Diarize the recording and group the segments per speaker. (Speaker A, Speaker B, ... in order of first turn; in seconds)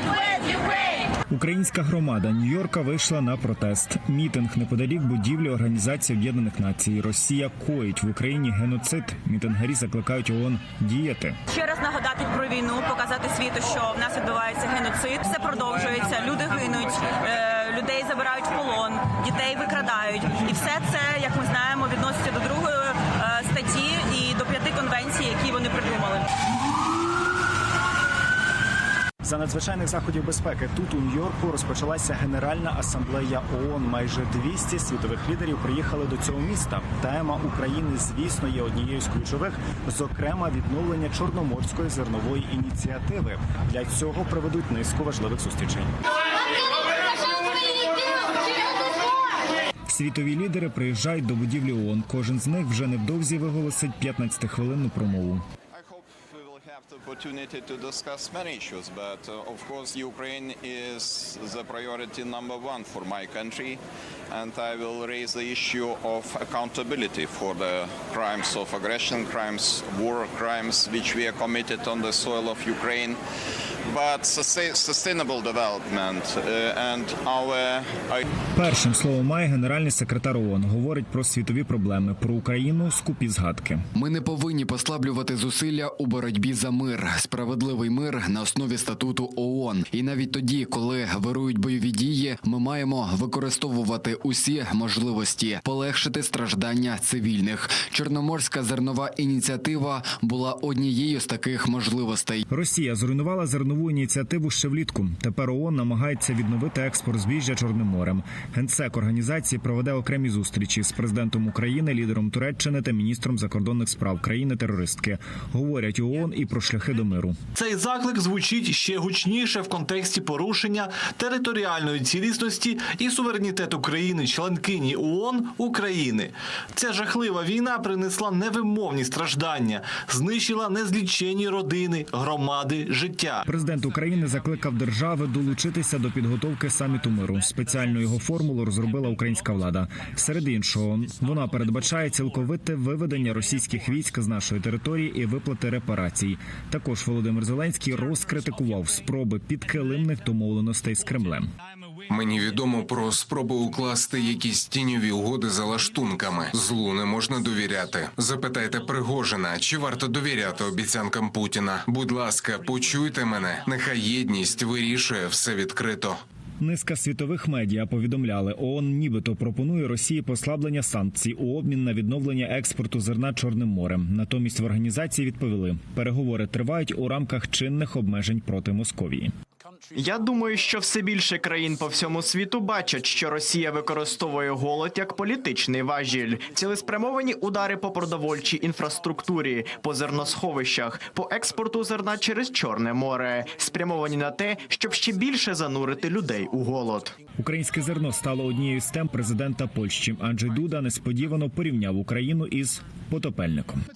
Speaker A: 1.3-11.4, 29.2-45.9, 49.9-55.4, 78.5-83.9, 102.5-117.4, 133.5-151.5, 166.6-179.3, 197.4-203.8
Speaker B: 11.5-26.3
Speaker C: 55.7-73.2, 73.8-78.2
Speaker D: 84.0-102.4
Speaker E: 117.5-133.4
Speaker F: 152.1-166.2
Speaker G: 179.9-197.2